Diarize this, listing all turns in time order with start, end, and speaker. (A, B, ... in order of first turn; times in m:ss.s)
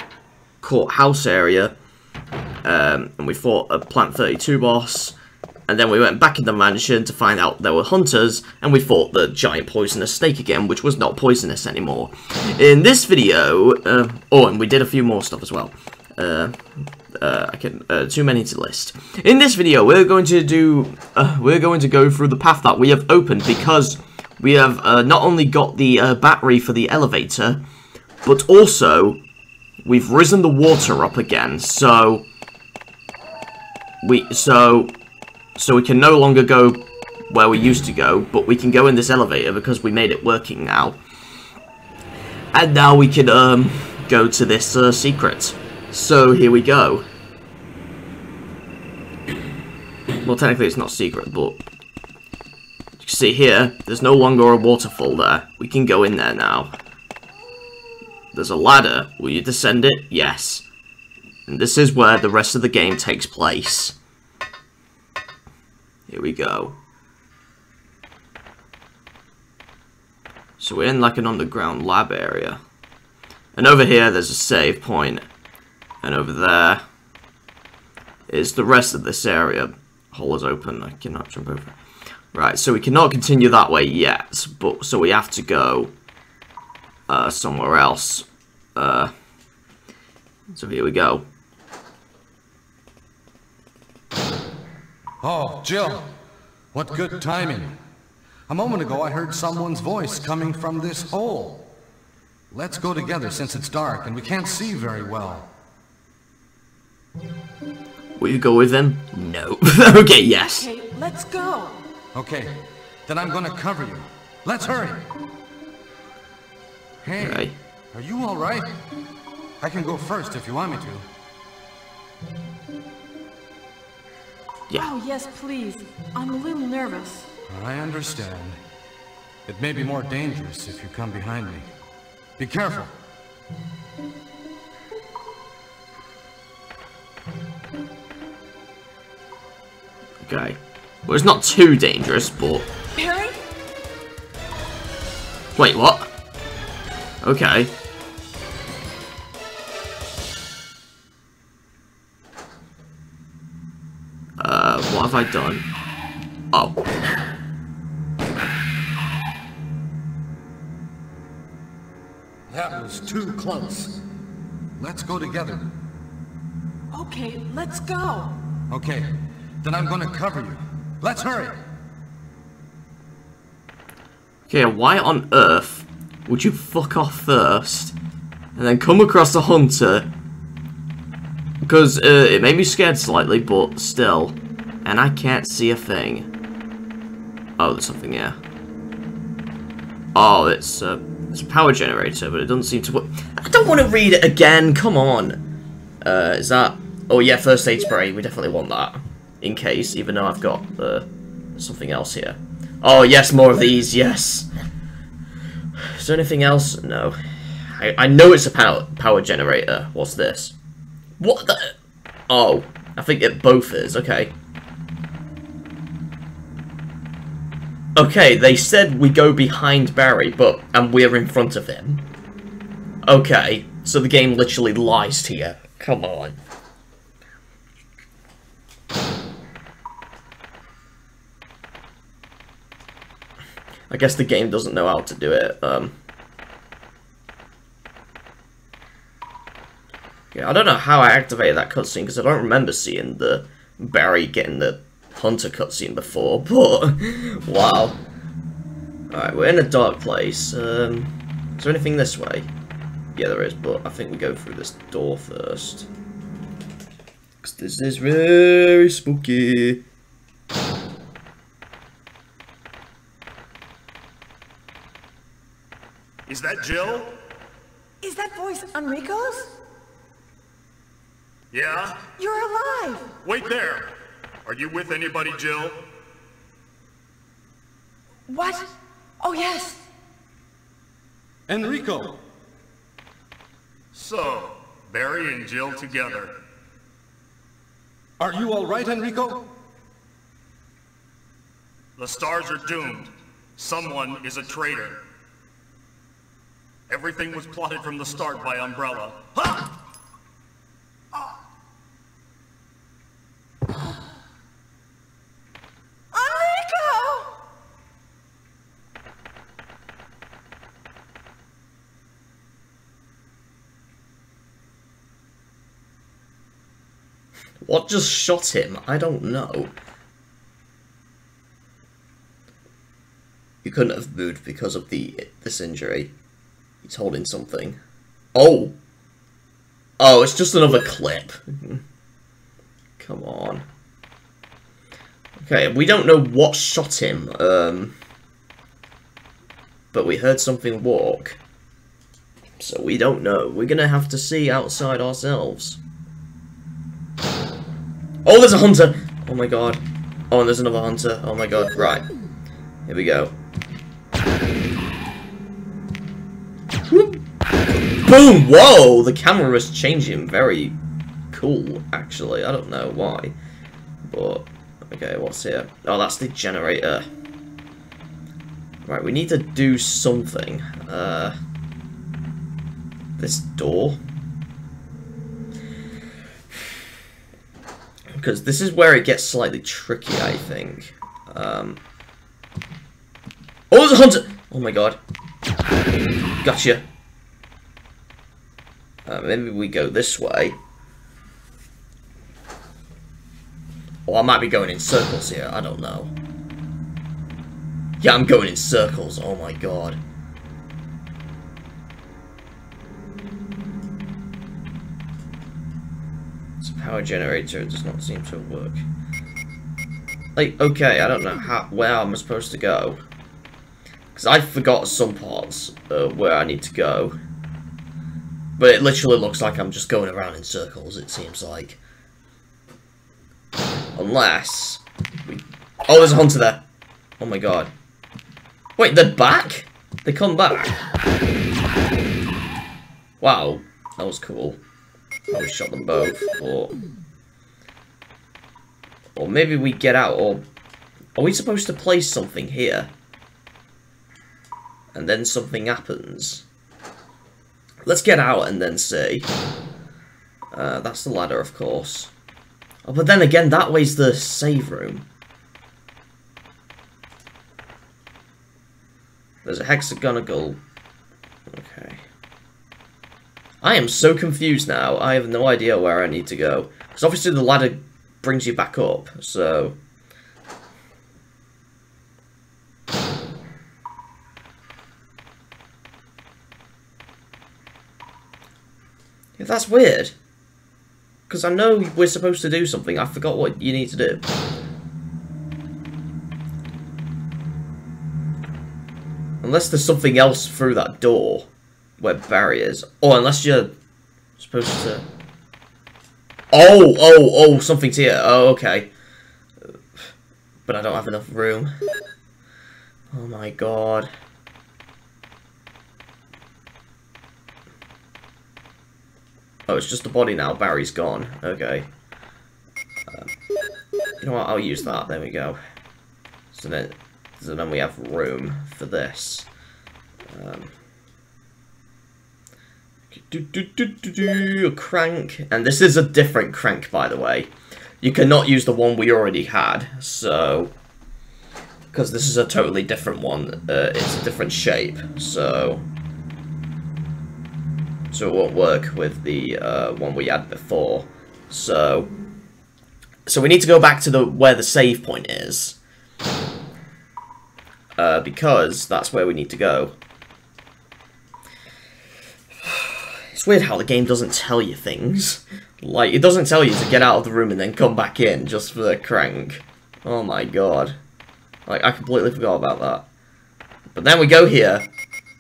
0:00.6-0:01.8 A
0:02.6-0:05.2 A
0:05.7-0:16.6 A
0:17.1-0:27.6 A
0:28.2-0:29.2 A
0:29.8-0:32.3 A
0:34.0-0:34.9 A
0:35.6-0:41.0 A
0:42.5-0:47.1 A
0:50.2-0:51.6 A
0:53.0-0:56.7 A
0:58.3-1:00.6 A
1:01.5-1:04.0 A
1:06.1-1:06.8 A
1:10.6-1:12.6 A
1:13.6-1:15.2 A
1:16.0-1:16.8 A
1:18.3-1:21.8 A
1:22.3-1:25.9 A
1:27.1-1:29.1 A
1:30.5-1:31.3 A
1:35.2-1:36.1 B
1:36.7-1:37.8 B
1:38.5-1:41.7 B
1:42.5-1:45.5 B
1:48.2-1:50.7 A
1:50.5-1:51.8 C
1:52.1-1:55.1 B
1:57.0-1:58.8 B
1:57.2-1:57.6 A
1:59.6-2:01.1 B
2:04.8-2:07.3 C
2:07.5-2:08.6 B
2:09.5-2:11.7 B
2:12.4-2:13.0 B
2:20.2-2:22.7 A
2:23.0-2:23.4 C
2:25.6-2:26.1 A
2:27.2-2:27.7 A
2:34.4-2:35.6 A
2:36.5-2:36.8 A
2:42.5-2:44.0 B
2:44.8-2:45.7 B
2:46.9-2:48.4 C
2:48.7-2:51.6 B
2:54.5-2:58.0 A
2:58.6-3:00.1 A
3:01.6-3:06.3 A
3:07.6-3:08.4 A
3:10.2-3:15.4 A
3:16.0-3:24.5 A
3:26.0-3:30.6 A
3:31.2-3:31.8 A
3:32.3-3:34.3 A
3:38.0-3:42.1 A
3:43.1-3:46.4 A
3:53.9-3:56.0 A
4:00.3-4:08.0 A
4:09.1-4:12.5 A
4:13.2-4:15.9 A
4:17.4-4:19.8 A
4:26.3-4:27.1 D
4:28.0-4:29.5 C
4:31.5-4:32.1 D
4:32.2-4:33.1 C
4:33.2-4:35.8 D
4:38.3-4:38.7 C
4:39.2-4:39.8 C
4:41.5-4:42.2 B
4:43.9-4:46.3 D
4:48.2-4:49.5 B
4:52.0-4:55.0 D
4:56.9-4:59.7 D
5:06.1-5:07.3 C
5:17.6-5:19.7 A
5:23.6-5:26.1 A
5:26.8-5:27.8 A
5:28.3-5:28.8 A
5:30.0-5:31.8 A
5:33.0-5:33.7 A
5:35.4-5:38.0 A
5:39.9-5:41.4 A
5:42.6-5:45.8 A
5:48.2-5:52.1 A
5:52.9-5:53.3 A
5:56.9-5:57.2 A
5:58.0-6:00.8 A
6:01.3-6:03.4 A
6:04.0-6:07.1 A
6:08.8-6:11.4 A
6:13.2-6:14.0 A
6:18.1-6:21.8 A
6:23.7-6:25.0 A
6:26.4-6:26.8 A
6:29.1-6:30.6 A
6:34.1-6:36.1 A
6:38.0-6:40.0 A
6:46.6-6:48.8 A
6:50.4-6:53.0 A
6:54.1-6:57.2 A
6:58.6-7:01.8 A
7:04.0-7:06.6 A
7:07.2-7:07.7 A
7:08.8-7:10.7 A
7:13.2-7:14.6 A
7:15.3-7:16.8 A
7:19.2-7:20.5 A
7:21.2-7:22.9 A
7:24.9-7:26.4 A
7:27.8-7:29.3 A
7:30.5-7:32.1 A
7:32.8-7:35.1 A
7:39.4-7:40.6 A
7:41.5-7:42.0 A
7:43.6-7:49.8 A
7:59.4-8:00.2 A
8:01.3-8:04.2 A
8:09.4-8:13.7 A
8:14.4-8:15.1 A
8:16.5-8:18.9 A
8:20.7-8:21.7 A
8:23.1-8:24.1 A
8:29.7-8:31.9 A
8:34.2-8:35.6 A
8:36.5-8:39.5 A
8:40.3-8:40.7 A
8:43.1-8:50.7 A
8:51.9-8:55.9 A
8:58.1-9:02.1 A
9:03.3-9:05.8 A
9:08.0-9:10.0 A
9:12.6-9:21.0 A
9:21.7-9:23.1 A
9:23.9-9:24.9 A